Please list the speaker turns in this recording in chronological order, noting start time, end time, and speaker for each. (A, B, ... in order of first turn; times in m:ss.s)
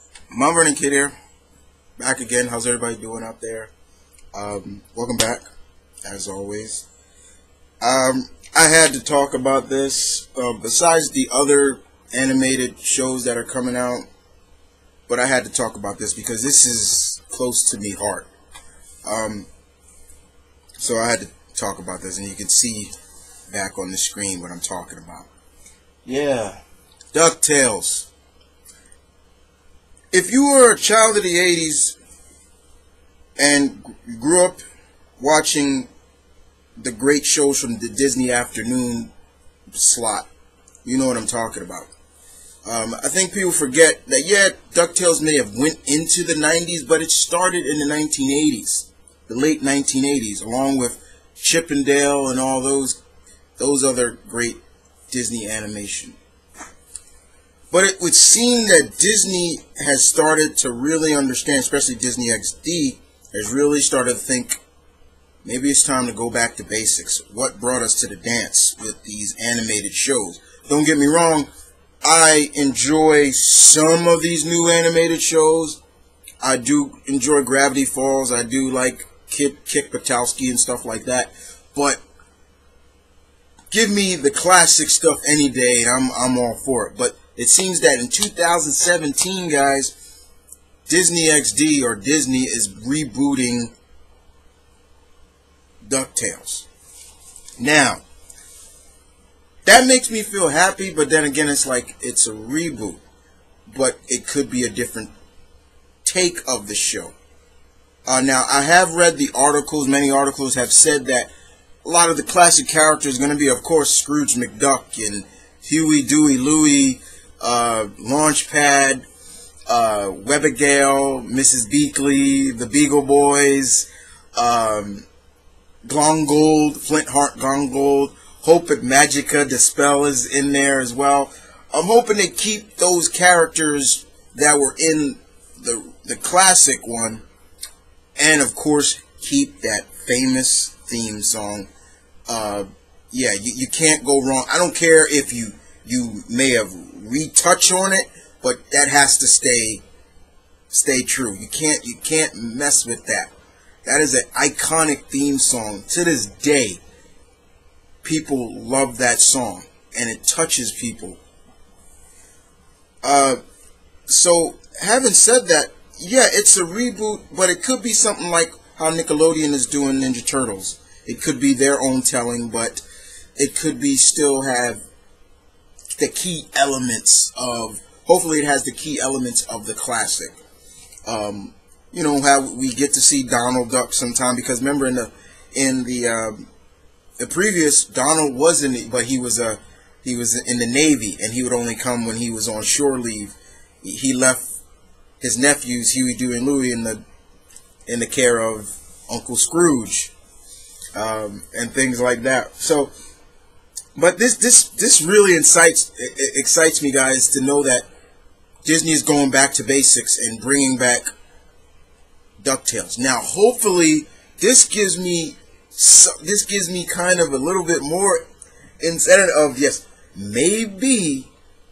0:00.3-0:01.1 A
0:02.0-0:03.7 A
0:04.3-0:05.4 A
0:06.0-0:06.9 A
0:07.8-0:14.1 A
0:15.1-0:18.3 A
0:19.0-0:19.5 A
0:20.8-0:22.9 A
0:23.5-0:25.3 A
0:26.1-0:26.6 A
0:27.1-0:28.1 A
0:30.1-0:32.0 A
0:33.4-0:34.6 A
0:35.2-0:35.9 A
0:36.8-0:39.1 A
0:39.7-0:40.3 A
0:40.8-0:41.9 A
0:42.6-0:53.0 A
0:53.6-0:54.6 A
0:55.1-0:56.2 A
0:57.7-1:04.6 A
1:05.4-1:11.5 A
1:12.0-1:15.8 A
1:16.4-1:22.0 A
1:23.7-1:29.9 A
1:30.9-1:33.7 A
1:35.8-1:36.7 A
1:37.6-1:38.0 A
1:39.6-1:43.0 A
1:43.7-1:45.1 A
1:46.0-1:47.1 A
1:48.1-1:51.3 A
1:51.8-1:59.0 A
1:59.7-2:05.1 A
2:05.8-2:17.2 A
2:18.2-2:21.7 A
2:22.3-2:29.8 A
2:30.7-2:33.3 A
2:33.8-2:36.8 A
2:38.0-2:41.2 A
2:43.0-2:43.4 A
2:44.1-2:52.8 A
2:53.4-2:54.8 A
2:56.0-3:00.4 A
3:01.1-3:06.5 A
3:07.2-3:14.5 A
3:15.2-3:17.0 A
3:17.9-3:20.1 A
3:21.0-3:22.9 A
3:24.0-3:27.9 A
3:28.6-3:31.1 A
3:32.4-3:38.2 A
3:38.8-3:41.3 A